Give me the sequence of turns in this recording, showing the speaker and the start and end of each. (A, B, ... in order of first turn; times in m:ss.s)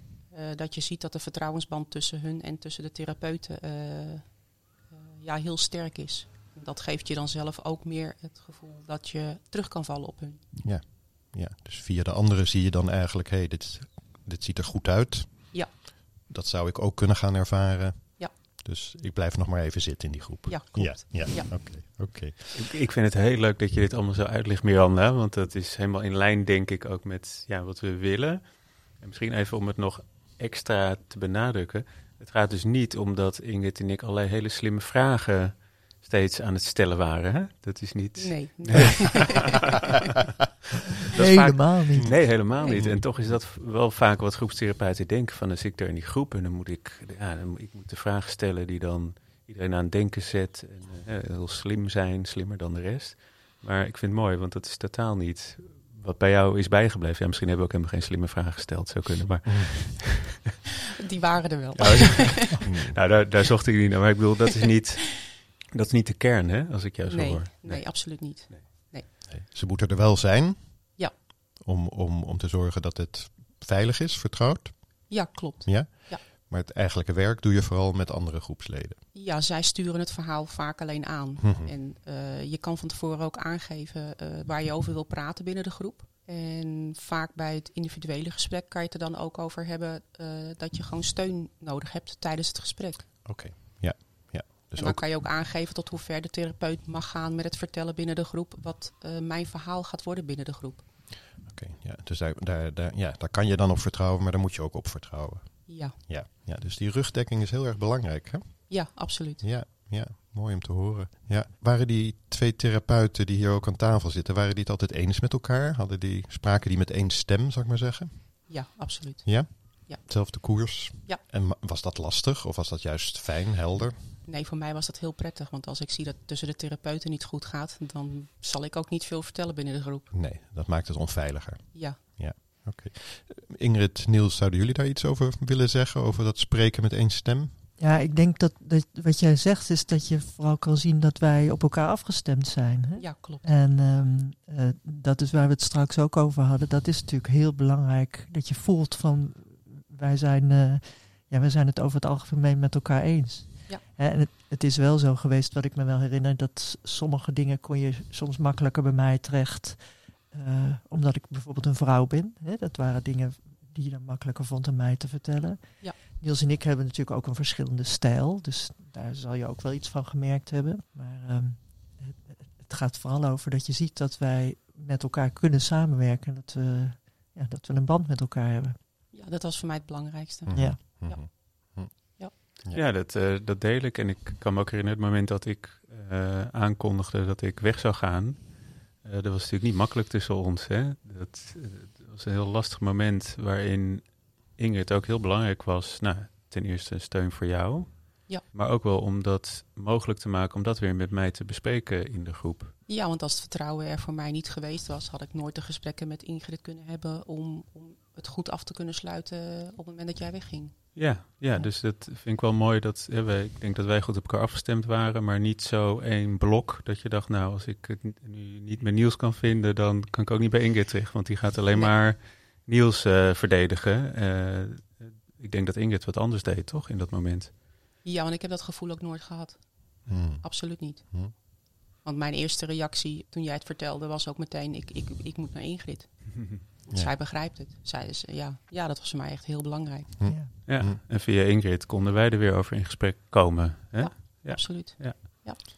0:00.3-0:04.3 A
0:04.9-0:10.4 A
0:10.6-0:15.6 B
0:16.3-0:22.6 B
0:20.5-0:21.5 A
0:22.5-0:28.4 C
0:29.0-0:40.2 C
0:38.2-0:39.6 A
0:41.1-0:42.1 D
0:41.1-1:00.6 C
0:42.6-0:42.9 A
0:59.4-0:59.7 B
1:01.0-1:02.6 A
1:01.8-1:08.6 C
1:02.6-1:03.0 B
1:07.0-1:09.0 A
1:09.3-1:10.8 B
1:11.6-1:15.0 B
1:15.1-1:16.2 A
1:15.6-1:19.0 B
1:19.1-1:33.1 A
1:21.4-1:21.7 B
1:33.2-1:35.0 B
1:34.8-1:40.8 A
1:41.4-1:48.7 B
1:45.7-1:46.0 A
1:48.7-1:49.4 A
1:49.4-1:58.2 B
1:58.5-2:00.0 A
1:59.2-2:04.0 B
2:04.2-2:10.1 A
2:10.1-2:17.5 B
2:11.7-2:12.0 A
2:17.8-2:39.8 D
2:23.0-2:23.4 A
2:40.3-2:58.8 D
2:59.1-3:02.3 A
3:00.5-3:01.9 B
3:00.5-3:00.9 D
3:02.7-3:08.4 C
3:09.0-3:22.7 C
3:22.9-3:30.7 A
3:30.9-3:47.5 C
3:48.0-3:49.6 A
3:50.1-3:50.4 B
3:50.2-3:51.1 A
3:52.0-3:56.3 A
3:56.8-4:00.2 A
4:00.2-4:01.0 B
4:00.2-4:00.5 D
4:00.6-4:05.2 C
4:04.0-4:05.6 A